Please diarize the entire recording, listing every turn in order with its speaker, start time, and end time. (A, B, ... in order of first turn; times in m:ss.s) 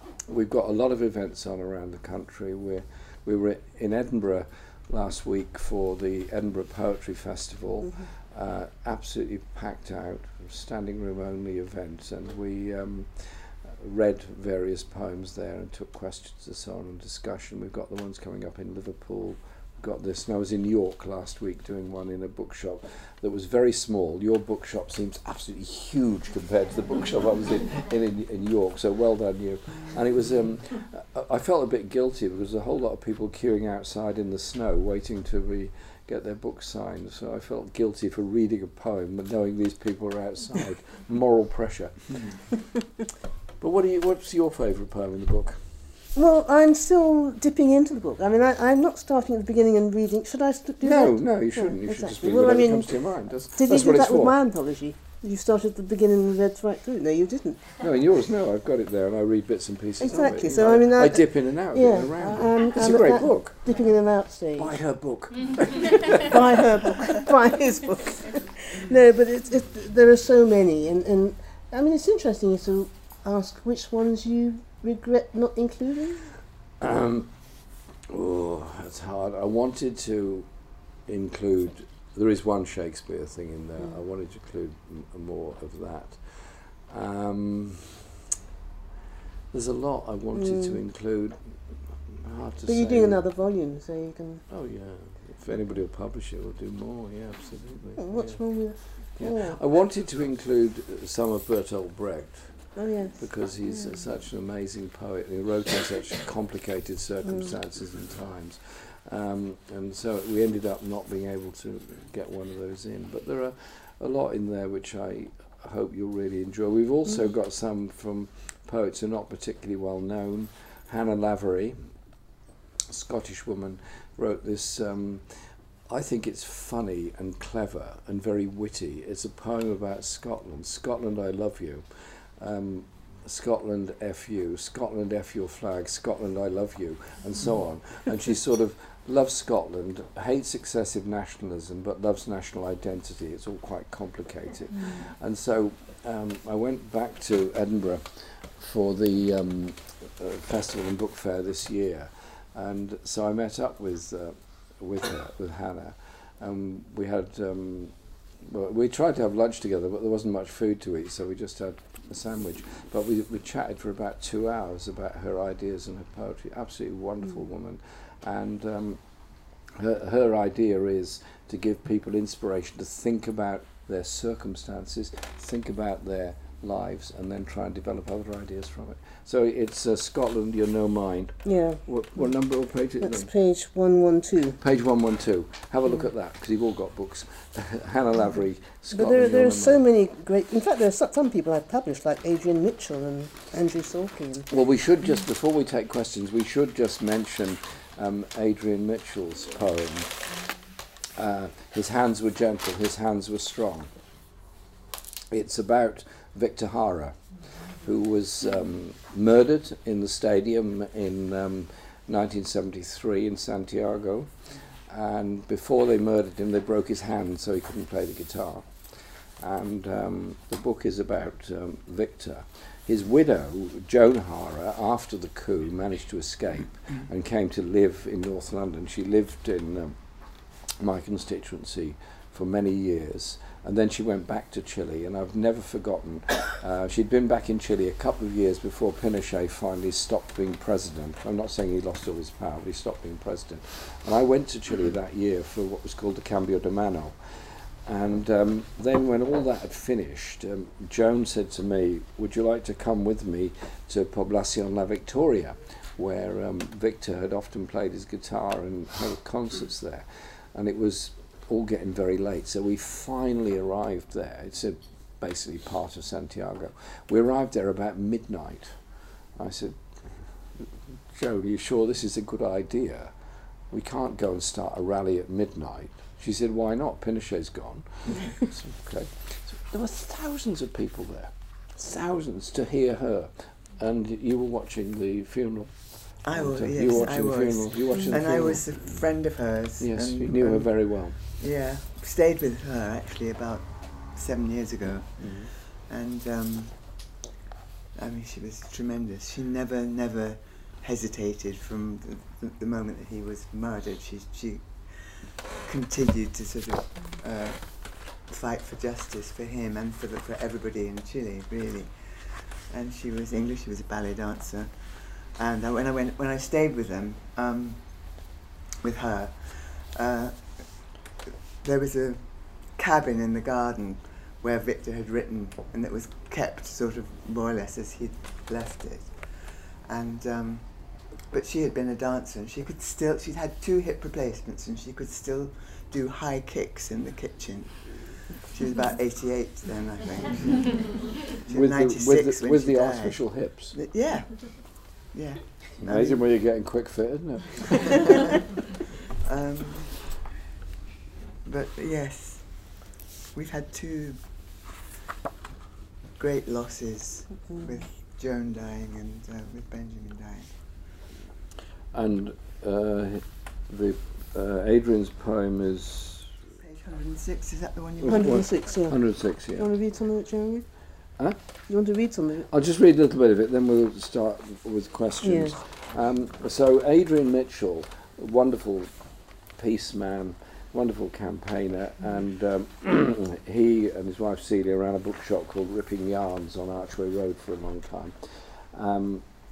0:00.3-0:42.5 A
0:43.6-0:45.6 A
0:46.1-0:57.8 B
0:50.8-0:54.4 A
0:57.8-1:03.9 A
1:00.0-1:04.8 B
1:04.5-1:06.3 A
1:06.2-1:16.3 B
1:16.8-1:17.4 A
1:18.1-1:20.5 A
1:21.0-1:28.0 A
1:29.5-1:33.2 A
1:30.3-1:30.8 B
1:32.6-1:34.4 B
1:34.5-2:01.8 A
1:38.0-1:39.6 B
1:42.7-1:43.9 B
2:02.9-2:49.0 A
2:49.7-3:03.3 A
3:01.4-3:01.8 B
3:03.0-3:04.6 B
3:04.6-3:09.8 A
3:08.9-3:14.5 B
3:14.5-3:20.2 A
3:21.2-3:23.9 A
3:25.3-4:28.8 A
4:29.4-4:33.1 A
4:33.7-4:48.9 A
4:46.2-4:57.2 C
4:49.8-4:51.2 A
4:55.2-4:55.5 A
4:57.9-5:18.3 C
5:18.8-5:21.0 C
5:21.6-5:46.3 C
5:41.5-5:43.8 A
5:45.8-5:48.4 A
5:47.8-5:48.3 C
5:49.2-5:50.2 C
5:51.4-5:54.2 C
5:56.2-6:00.7 C
6:01.9-6:06.3 A
6:06.6-6:08.5 C
6:08.0-6:09.7 A
6:08.0-6:10.8 B
6:11.7-6:12.5 B
6:12.5-6:18.9 A
6:15.2-6:15.6 B
6:19.6-6:29.2 A